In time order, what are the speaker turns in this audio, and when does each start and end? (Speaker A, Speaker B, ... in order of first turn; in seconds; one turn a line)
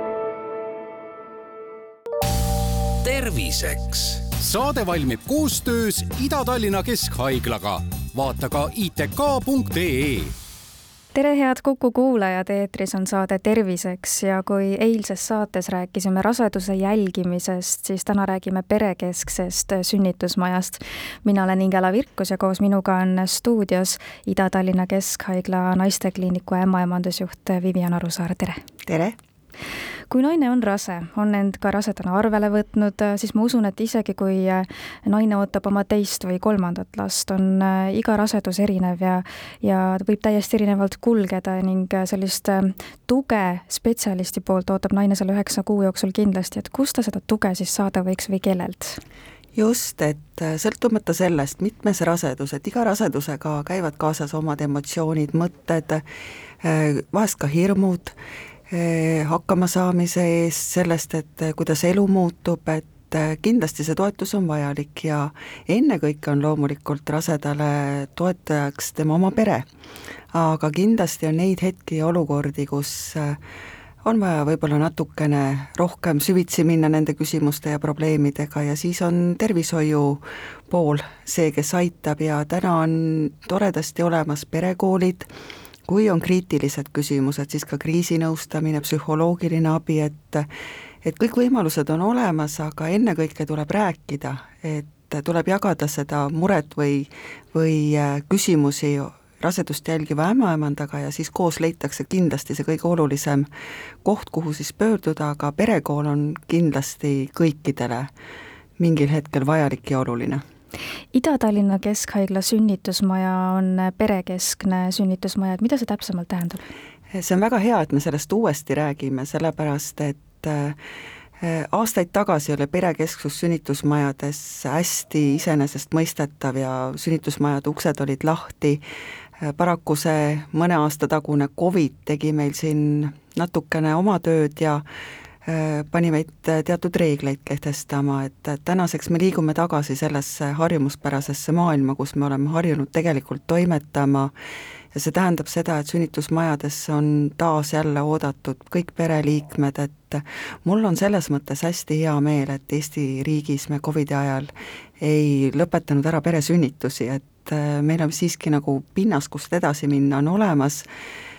Speaker A: 3.0-10.3
Speaker B: 11.1-28.6
Speaker C: 28.9-29.1
Speaker B: 30.1-49.0
Speaker C: 49.5-56.0
Speaker C: 56.6-58.1
Speaker C: 58.7-69.7
Speaker C: 70.3-73.4
Speaker C: 74.0-85.3
Speaker C: 85.9-90.5
Speaker C: 91.0-103.5
Speaker C: 104.0-108.1
Speaker C: 108.8-110.4
Speaker B: 111.1-116.6
Speaker C: 117.1-120.8
Speaker C: 121.4-128.8
Speaker C: 129.4-134.8
Speaker C: 135.4-144.3
Speaker C: 144.9-160.9